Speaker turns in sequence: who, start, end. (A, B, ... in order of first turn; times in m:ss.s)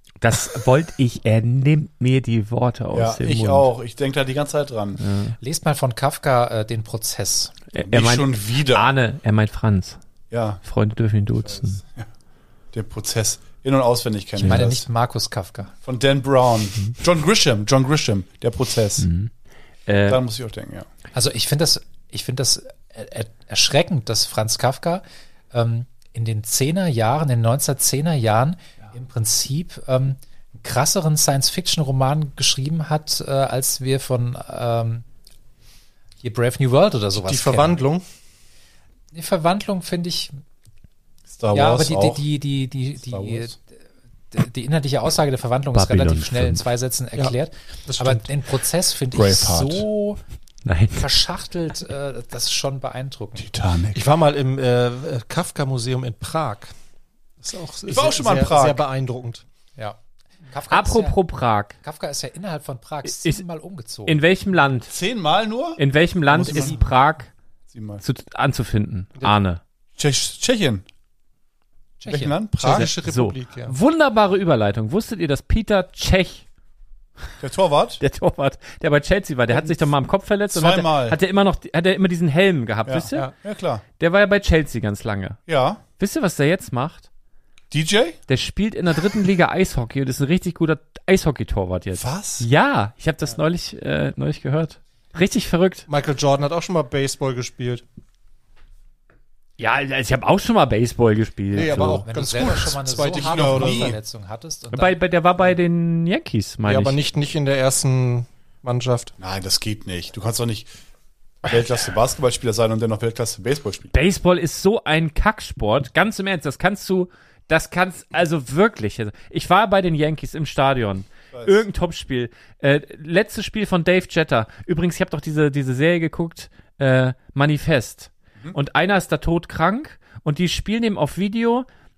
0:00.2-0:03.7 A
0:02.9-0:05.0 B
0:05.0-0:05.4 A
0:05.4-0:07.5 C
0:07.7-0:10.0 A
0:07.8-0:08.9 B
0:10.3-0:10.6 B
0:10.6-0:11.8 A
0:11.4-0:12.1 B
0:12.7-0:14.8 B
0:14.4-0:15.7 C
0:15.8-0:19.1 B
0:19.0-0:19.3 A
0:19.9-0:20.2 A
0:20.1-0:20.9 B
0:21.1-0:35.0 C
0:36.2-0:37.8 C
0:37.2-0:38.0 D
0:39.1-0:40.4 C
0:41.3-0:42.2 B
0:41.5-0:43.6 C
0:43.1-0:43.5 B
0:44.3-0:50.2 C
0:45.7-0:46.6 A
0:47.9-0:48.2 D
0:49.2-0:49.8 B
0:50.6-0:51.0 A
0:50.9-0:53.5 C
0:53.4-0:54.0 B
0:53.9-0:56.7 D
0:57.4-0:59.4 D
0:57.9-0:58.8 B
0:59.8-1:01.2 C
1:00.7-1:01.8 A
1:01.8-1:04.2 C
1:03.0-1:03.4 A
1:04.0-1:04.9 A
1:04.9-1:06.8 B
1:05.8-1:07.3 A
1:06.5-1:06.8 C
1:07.7-1:08.0 B
1:08.0-1:09.6 A
1:10.0-1:10.8 B
1:12.0-1:12.3 C
1:12.1-1:12.9 B
1:12.6-1:13.7 D
1:12.6-1:16.4 A
1:17.4-1:18.0 B
1:18.0-1:23.3 A
1:20.5-1:21.2 B
1:22.9-1:23.8 B
1:24.0-1:25.4 A
1:25.5-1:25.8 B
1:26.0-1:27.1 A
1:27.7-1:28.2 B
1:28.3-1:35.8 A
1:31.9-1:32.4 B
1:35.9-1:37.8 D
1:39.6-1:42.0 A
1:41.5-1:43.9 D
1:41.6-1:45.0 C
1:43.0-1:44.0 B
1:44.7-1:47.0 A
1:46.6-1:49.1 D
1:49.2-1:50.7 B
1:51.4-1:53.9 B
1:53.9-2:11.6 A
2:01.3-2:01.6 B